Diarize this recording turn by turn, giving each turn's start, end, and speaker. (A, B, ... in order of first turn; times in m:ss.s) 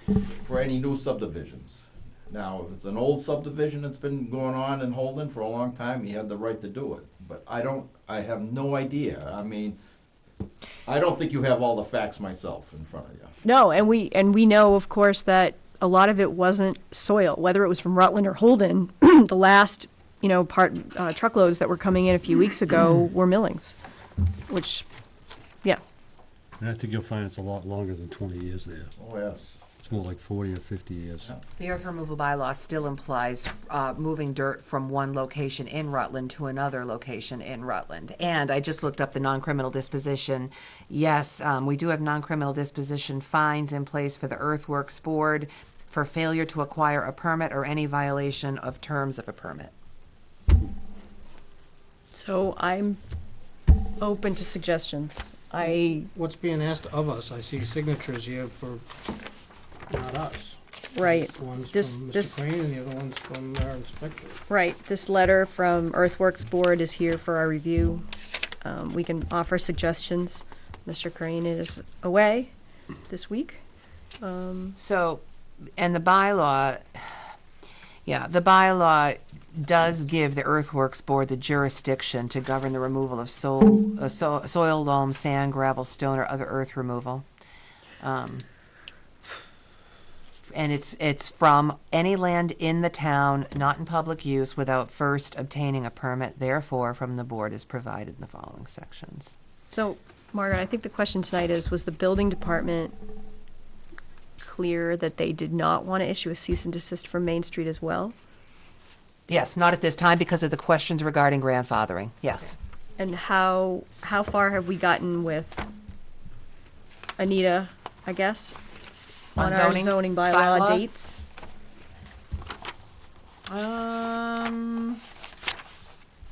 0:00.4-0:09.8 A
0:10.9-0:13.4 A
0:13.4-0:23.8 B
0:24.5-0:24.9 B
0:26.6-0:28.9 C
0:29.0-0:29.6 A
0:29.8-0:31.3 C
0:31.6-0:49.7 D
0:52.1-0:53.0 B
0:54.0-0:56.1 B
0:55.6-0:58.9 E
0:59.9-1:04.4 E
1:01.0-1:02.4 B
1:04.5-1:08.1 B
1:08.6-1:12.5 B
1:13.1-1:13.6 B
1:14.2-1:14.8 B
1:14.8-1:15.2 D
1:15.8-1:17.1 D
1:18.1-1:27.2 D
1:28.0-1:28.4 D
1:30.5-1:39.4 D
1:39.7-1:43.0 B
1:44.4-1:48.2 B
1:49.3-1:52.6 D
1:53.0-1:55.7 B
1:57.2-1:58.6 B
1:59.4-2:00.9 D
1:59.4-2:01.2 B
2:03.5-2:05.0 D